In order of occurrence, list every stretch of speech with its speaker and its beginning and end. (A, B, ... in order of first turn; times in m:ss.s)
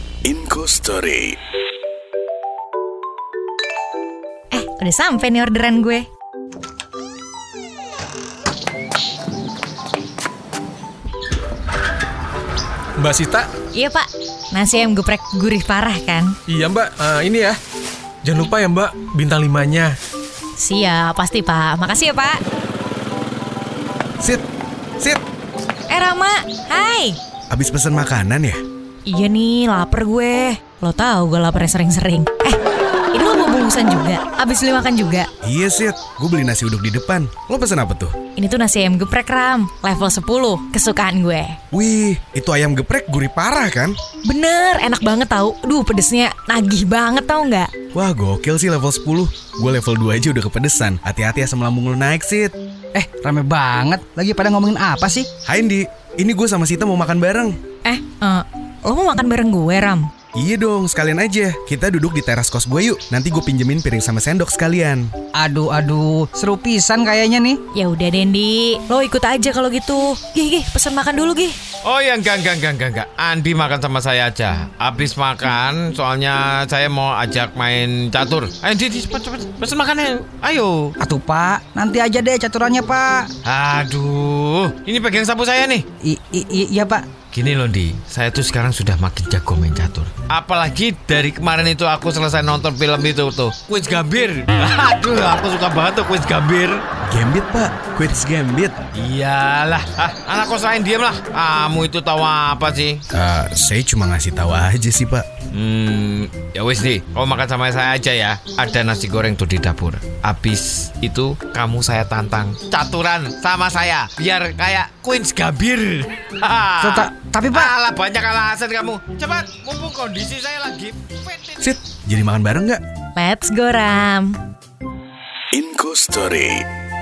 0:00.2-0:01.4 A
0:04.5-0:06.1 B
0:13.0-0:13.5 C
0:13.7-0:16.4 B
0:16.5-0:17.6 C
0:18.2-0:20.0 C
0:20.6-0:22.4 B
0:24.2-0:24.5 D
0:25.9-0:27.2 B
0:27.5-0:28.6 D
0:29.1-0:32.6 B
0:33.1-0:35.3 B
0:35.4-0:38.2 D
0:38.4-0:41.6 B
0:41.7-0:44.0 D
0:44.3-0:47.7 B
0:47.9-0:52.5 D
0:52.9-0:55.3 E
0:55.5-0:57.6 D
0:57.8-1:00.1 B
1:00.4-1:05.1 D
1:05.4-1:07.6 E
1:07.7-1:11.6 B
1:11.8-1:21.0 F
1:21.0-1:23.3 E
1:23.4-1:25.9 F
1:26.0-1:27.1 E
1:27.3-1:36.8 F
1:37.1-1:38.8 D
1:38.9-1:43.0 F
1:43.1-1:45.3 D
1:45.5-2:01.6 F
1:56.8-1:57.7 E
2:01.6-2:02.8 D
2:03.2-2:04.4 B
2:05.5-2:06.7 A